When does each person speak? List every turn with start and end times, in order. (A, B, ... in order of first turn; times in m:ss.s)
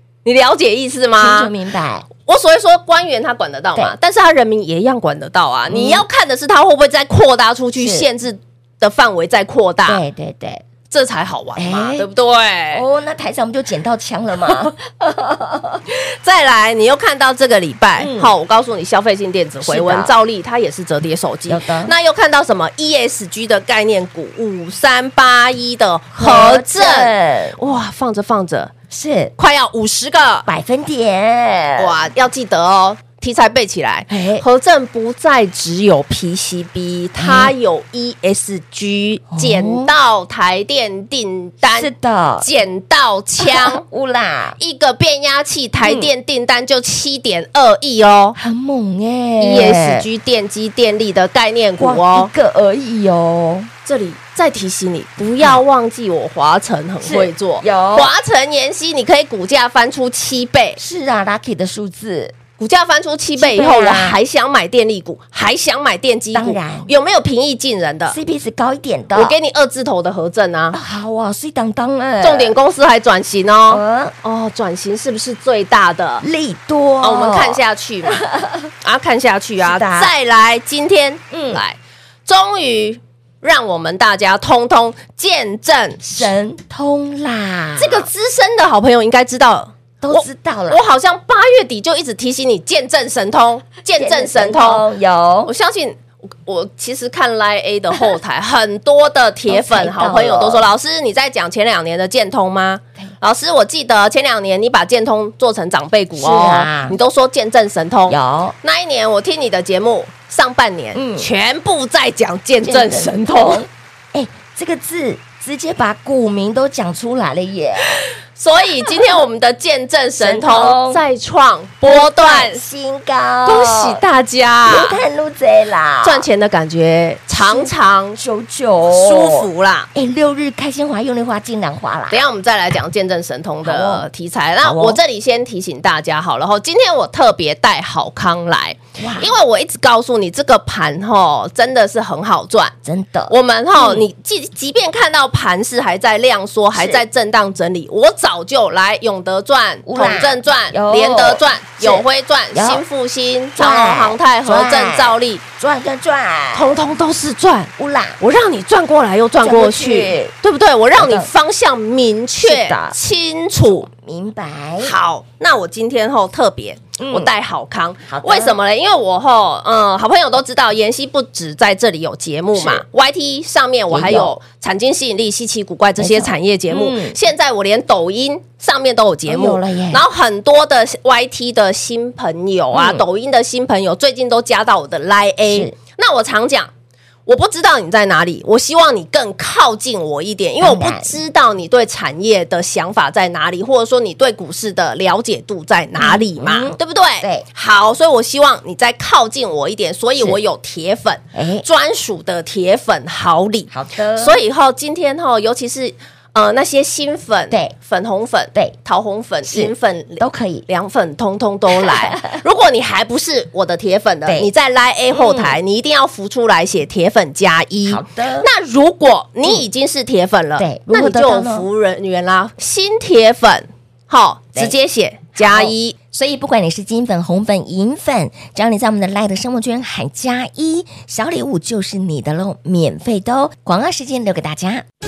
0:00.2-0:01.5 A
0:01.2-0:02.1 B
0:02.2-0:10.0 A
0:05.7-0:06.0 B
0:07.8-0:08.1 B
0:09.9-0:10.6 B
0:10.9-0:12.8 A
0:11.6-0:12.1 B
0:12.7-0:15.8 B
0:15.9-0:28.7 A
0:18.0-0:18.3 B
0:19.6-0:20.1 B
0:21.5-0:21.9 B
0:26.1-0:27.6 B
0:28.9-0:29.3 B
0:29.4-0:30.5 A
0:30.5-0:32.0 B
0:31.8-0:43.8 A
0:34.1-0:34.4 B
0:37.2-0:37.5 B
0:39.3-0:39.9 B
0:41.7-0:42.5 B
0:43.4-0:44.6 B
0:44.6-0:48.4 A
0:45.8-0:46.1 B
0:48.4-0:50.0 B
0:49.4-0:52.3 A
0:51.8-0:53.7 B
0:53.8-1:00.8 A
0:57.0-0:58.1 B
1:00.8-1:02.4 B
1:02.6-1:08.2 A
1:03.4-1:04.2 B
1:06.3-1:06.9 B
1:08.1-1:09.4 B
1:09.1-1:10.8 A
1:10.7-1:12.6 B
1:12.2-1:16.2 A
1:13.7-1:14.2 B
1:16.2-1:17.6 B
1:17.0-1:18.2 A
1:18.1-1:18.7 B
1:18.8-1:26.0 A
1:19.6-1:20.1 B
1:21.3-1:21.6 B
1:26.0-1:28.1 B
1:27.8-1:34.8 A
1:30.0-1:30.8 B
1:33.9-1:35.5 B
1:35.4-1:53.7 A
1:39.5-1:40.7 B
1:46.2-1:47.0 B
1:48.1-1:48.6 B
1:50.9-1:51.3 B
1:52.6-1:58.0 B
1:58.3-2:02.6 A
2:00.2-2:01.0 B
2:01.8-2:04.0 B
2:03.4-2:05.0 A
2:04.7-2:06.3 B
2:06.0-2:08.2 A
2:07.3-2:12.2 B
2:08.9-2:09.9 A
2:12.1-2:22.7 A
2:13.6-2:14.1 B
2:14.6-2:15.0 B
2:19.0-2:19.3 B
2:22.8-2:24.1 B
2:23.3-2:35.4 A
2:26.7-2:27.0 B
2:29.9-2:32.8 B
2:33.6-2:36.8 B
2:36.5-2:43.9 A
2:37.8-2:38.2 B
2:39.4-2:40.3 B
2:41.0-2:41.3 B
2:42.4-2:43.0 B
2:43.8-2:44.9 B
2:44.8-3:06.7 A
2:47.0-2:47.3 B
2:48.1-2:48.6 B
2:52.6-2:52.8 B
2:53.9-2:54.4 B
2:56.0-2:57.2 B
2:59.3-3:00.0 B
3:02.7-3:03.0 B
3:05.5-3:05.8 B
3:07.3-3:46.0 A
3:10.6-3:11.2 B
3:16.0-3:17.5 B
3:21.3-3:21.7 B
3:23.7-3:24.4 B
3:29.4-3:30.7 B
3:31.7-3:32.3 B
3:34.3-3:34.5 B
3:35.1-3:35.6 B
3:37.9-3:38.5 B
3:40.6-3:41.7 B
3:45.4-3:54.8 B